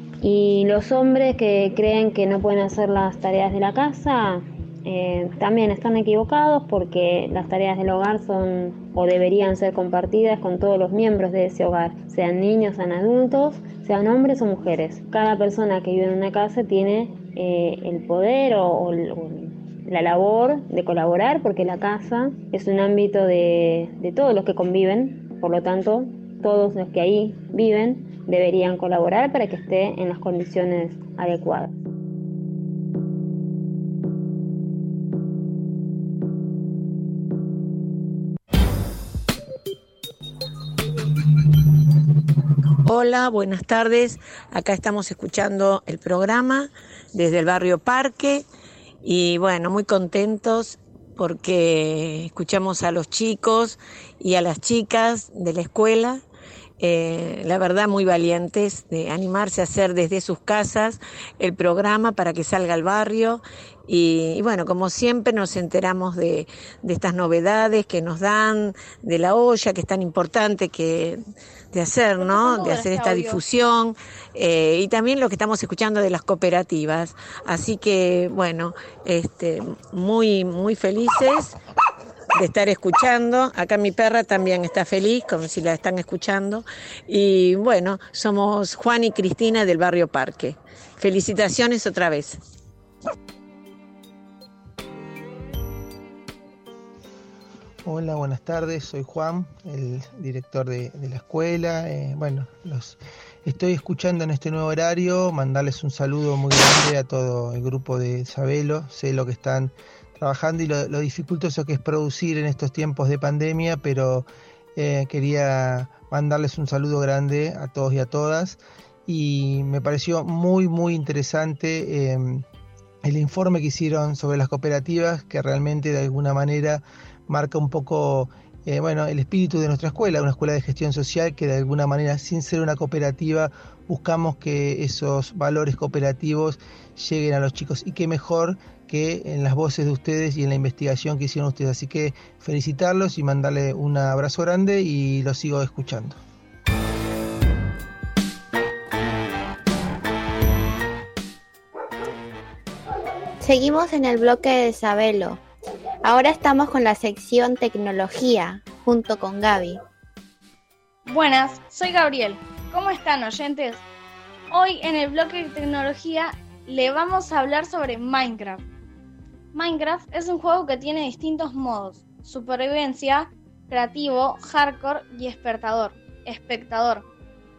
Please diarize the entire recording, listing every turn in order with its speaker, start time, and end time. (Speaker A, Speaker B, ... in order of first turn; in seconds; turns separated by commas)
Speaker A: 0.2-31.8, Speaker B: 42.8-48.5, Speaker B: 49.0-56.2, Speaker B: 56.8-71.2, Speaker B: 71.7-81.6, Speaker C: 72.2-73.4, Speaker B: 82.3-92.4, Speaker D: 97.8-122.5, Speaker D: 123.0-146.2, Speaker E: 153.4-155.4, Speaker E: 156.0-159.8, Speaker C: 161.1-163.8, Speaker C: 164.5-168.6, Speaker C: 169.5-177.0